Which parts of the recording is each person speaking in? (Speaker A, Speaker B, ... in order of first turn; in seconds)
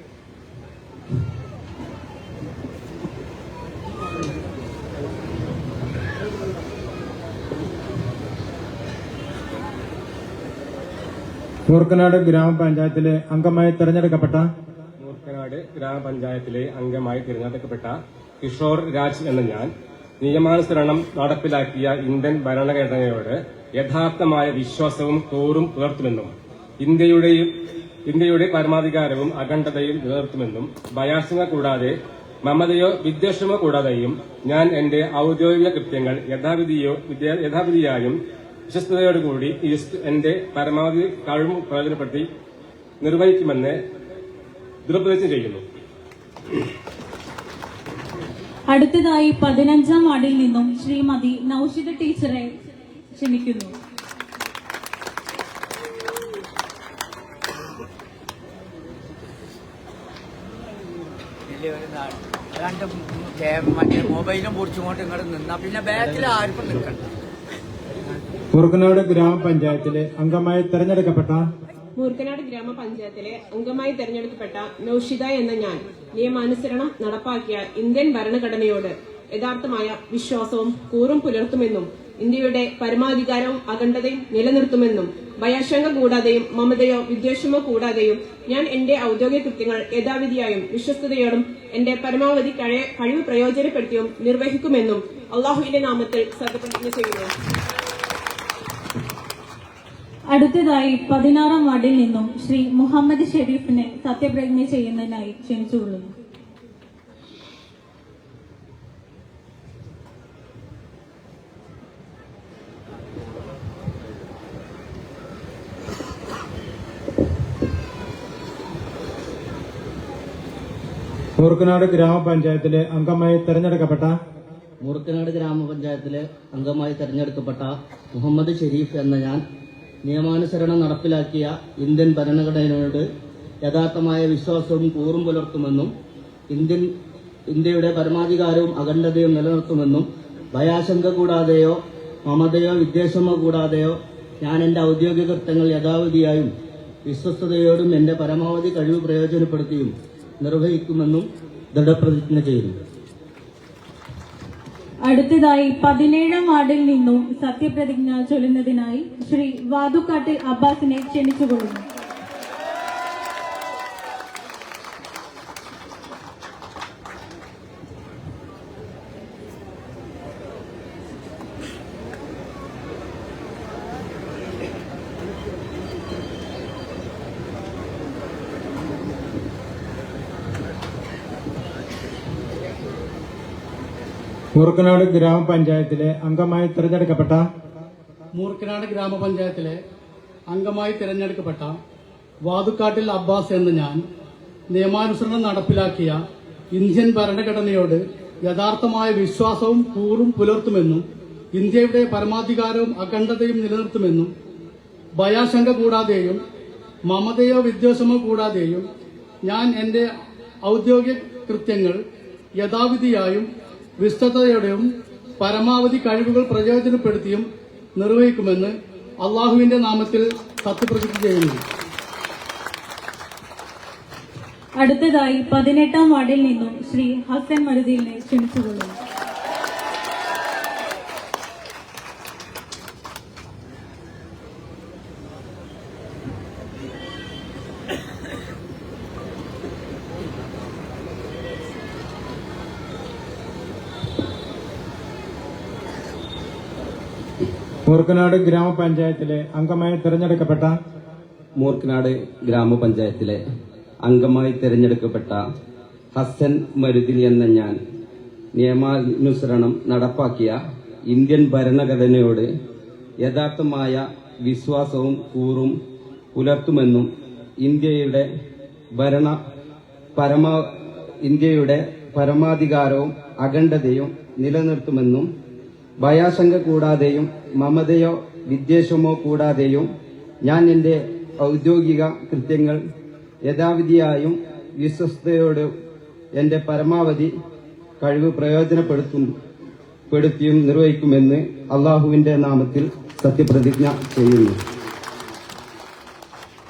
Speaker A: 11.7-14.5, 68.6-71.5, 121.4-124.2, 184.6-187.5, 247.9-250.7
Speaker B: 15.0-27.5, 28.1-38.2, 38.7-42.3, 43.0-43.8, 44.9-45.6
Speaker C: 48.7-52.5, 53.1-53.8, 100.3-106.1, 155.1-161.8, 224.8-229.0
Speaker D: 61.5-67.0
Speaker E: 72.0-97.3
Speaker F: 124.8-129.4, 130.1-133.1, 133.7-135.9, 136.5-136.9, 137.5-146.5, 147.1-152.8
Speaker G: 188.4-189.8, 190.5-191.8, 192.5-194.0, 194.7-196.2, 196.8-201.0, 201.6-204.3, 205.2-206.4, 207.1-208.8, 209.5-210.1, 210.7-212.0, 212.6-213.5, 214.0-214.9, 215.4-217.5, 218.0-221.6
Speaker H: 251.6-253.4, 254.0-255.4, 256.1-257.8, 258.6-260.6, 261.1-262.5, 263.2-265.8, 266.4-267.1, 267.6-268.3, 268.9-269.4, 270.2-275.3, 276.0-279.9, 280.4-282.8, 283.4-285.7, 286.4-287.3, 288.0-289.3, 290.1-294.6